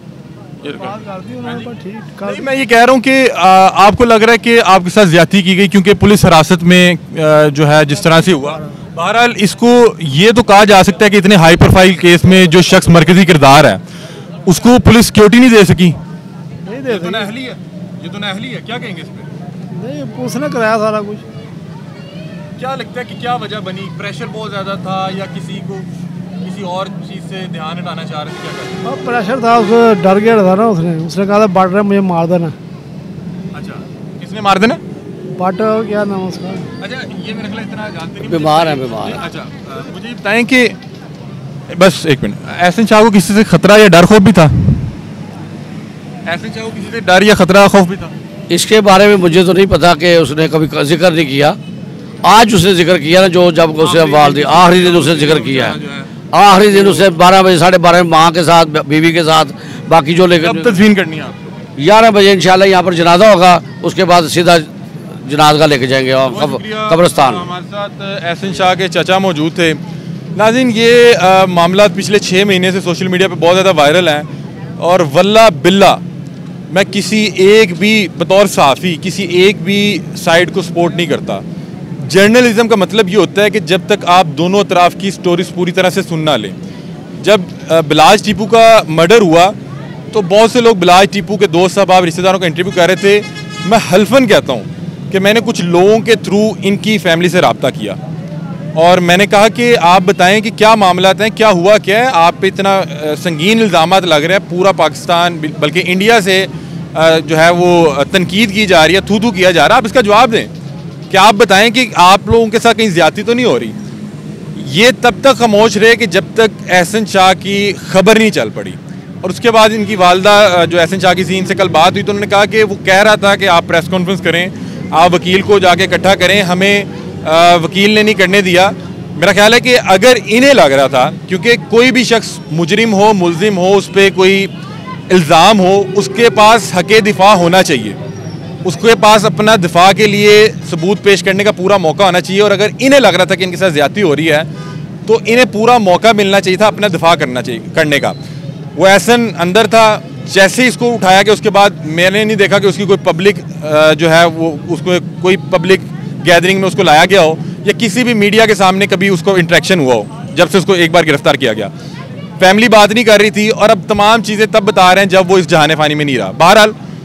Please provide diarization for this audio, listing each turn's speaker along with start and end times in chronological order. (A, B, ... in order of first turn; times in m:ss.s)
0:00.6-0:13.8 A
0:00.8-0:02.4 B
0:14.5-0:16.0 A
0:16.7-0:17.2 B
0:16.8-0:19.3 A
0:19.7-0:21.2 B
0:22.6-0:25.9 A
0:26.4-0:28.8 A
0:28.9-0:32.5 B
0:33.5-0:34.8 A
0:35.3-0:36.6 B
0:36.8-0:40.8 A
0:38.2-0:39.2 C
0:41.7-0:44.9 A
0:46.2-0:48.1 A
0:48.5-0:51.6 C
0:52.2-0:55.8 C
0:53.8-0:56.1 A
0:56.3-1:00.7 C
0:56.7-0:57.0 A
1:00.4-1:01.6 A
1:01.8-1:04.7 C
1:05.2-1:07.4 C
1:06.3-1:09.8 A
1:10.3-1:14.2 A
1:14.8-1:16.0 A
1:16.7-1:21.4 A
1:22.0-1:26.5 A
1:27.2-1:29.5 A
1:30.1-1:38.0 A
1:38.7-1:50.5 A
1:51.1-1:53.8 A
1:54.6-2:14.5 A
2:15.1-2:18.0 A
2:18.6-2:24.5 A
2:25.0-2:28.1 A
2:28.8-2:41.7 A
2:42.4-2:46.7 A